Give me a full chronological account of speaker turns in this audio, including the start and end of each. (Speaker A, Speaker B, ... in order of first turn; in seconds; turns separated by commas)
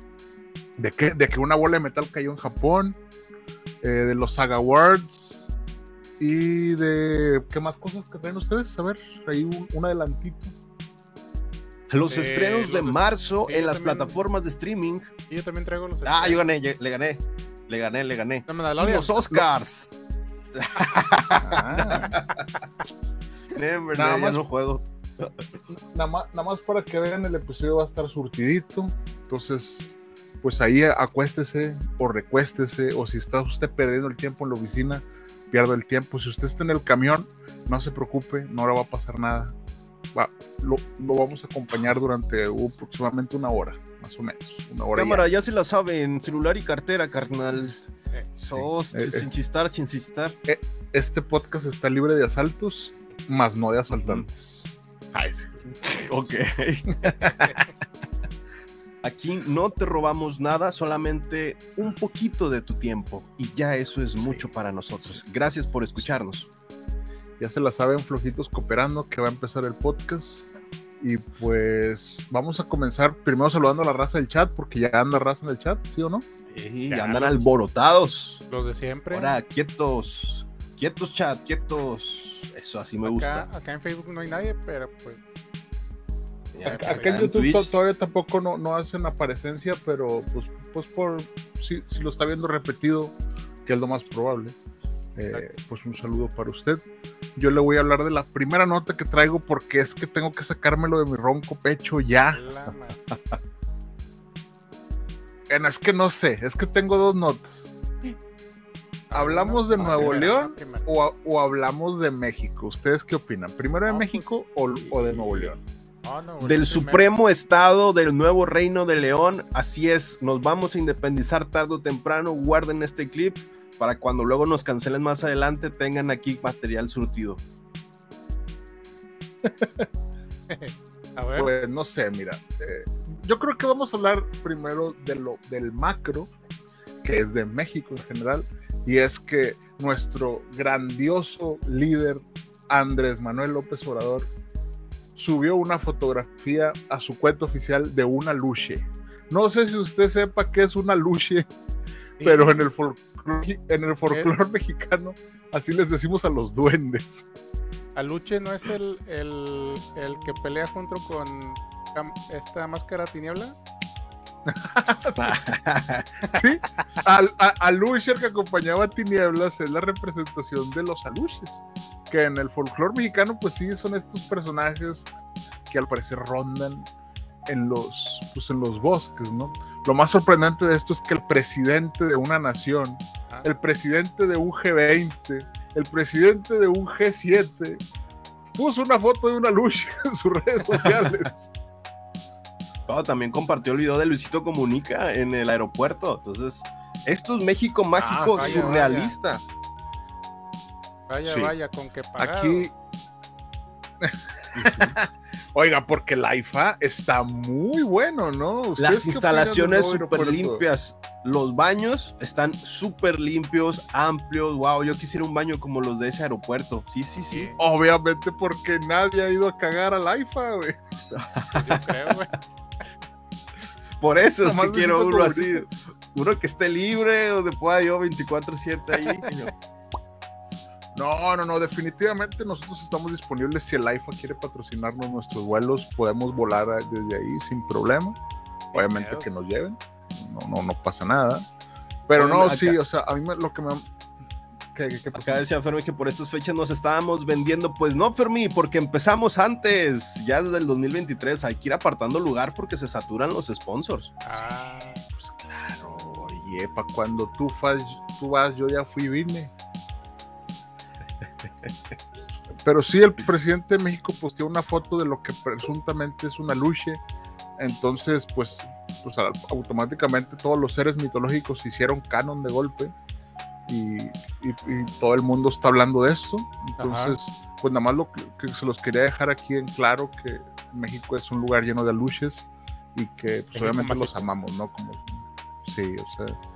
Speaker A: 0.8-3.0, Speaker A: 3.8-5.5, Speaker A: 6.2-10.5, Speaker B: 11.9-15.1, Speaker C: 12.1-14.2, Speaker C: 15.3-16.4, Speaker B: 16.0-20.0, Speaker C: 18.5-19.2, Speaker B: 20.5-22.5, Speaker A: 21.2-22.1, Speaker C: 21.8-22.2, Speaker B: 23.5-25.5, Speaker A: 23.9-24.4, Speaker A: 25.7-29.9, Speaker A: 30.4-39.5, Speaker A: 40.1-45.2, Speaker B: 44.9-47.8, Speaker A: 48.4-49.3, Speaker B: 48.4-50.4, Speaker A: 50.5-55.5, Speaker B: 53.9-54.2, Speaker B: 55.6-57.1, Speaker A: 56.9-57.6, Speaker B: 59.0-66.5, Speaker A: 67.4-70.5, Speaker A: 71.0-76.2, Speaker B: 76.5-78.4, Speaker C: 76.9-77.5, Speaker C: 78.5-79.4, Speaker B: 79.1-83.5, Speaker C: 83.0-85.2, Speaker B: 86.5-87.8, Speaker C: 86.6-87.2, Speaker A: 86.7-94.5, Speaker A: 95.2-96.8, Speaker A: 97.3-102.4, Speaker C: 102.3-103.1, Speaker B: 102.7-103.4, Speaker A: 105.5-107.7, Speaker C: 109.1-110.8, Speaker A: 109.1-115.6, Speaker B: 109.8-110.2, Speaker C: 113.9-114.2, Speaker B: 114.8-115.5, Speaker C: 116.0-117.0, Speaker B: 116.4-127.4, Speaker A: 129.4-129.9, Speaker C: 130.5-131.5, Speaker A: 131.3-136.3, Speaker A: 137.0-144.3, Speaker A: 145.2-151.4, Speaker C: 152.2-152.6, Speaker A: 152.2-157.2, Speaker C: 157.9-163.5, Speaker A: 164.5-165.4, Speaker B: 165.1-166.1, Speaker A: 166.3-175.1, Speaker A: 175.7-176.9, Speaker A: 177.5-187.8, Speaker A: 188.6-191.3, Speaker B: 190.7-191.3, Speaker B: 192.9-199.4, Speaker A: 198.0-198.9, Speaker C: 198.2-199.2, Speaker C: 201.1-202.7, Speaker A: 201.2-201.5, Speaker A: 202.2-202.7, Speaker A: 204.0-210.6, Speaker B: 204.5-204.9, Speaker B: 208.8-217.5, Speaker C: 217.3-217.6, Speaker A: 217.6-220.8, Speaker B: 221.1-222.2, Speaker C: 221.5-222.4, Speaker B: 224.0-229.5, Speaker A: 224.4-225.7, Speaker A: 230.9-238.2, Speaker C: 238.7-239.3, Speaker A: 238.7-241.4, Speaker A: 242.1-243.9, Speaker B: 242.2-242.8, Speaker A: 244.7-245.4, Speaker B: 245.1-254.1, Speaker C: 254.2-255.0, Speaker A: 255.2-259.5, Speaker B: 261.4-261.7, Speaker A: 262.6-267.0, Speaker A: 267.6-272.9, Speaker A: 273.7-286.4, Speaker C: 276.8-277.1, Speaker C: 283.5-284.2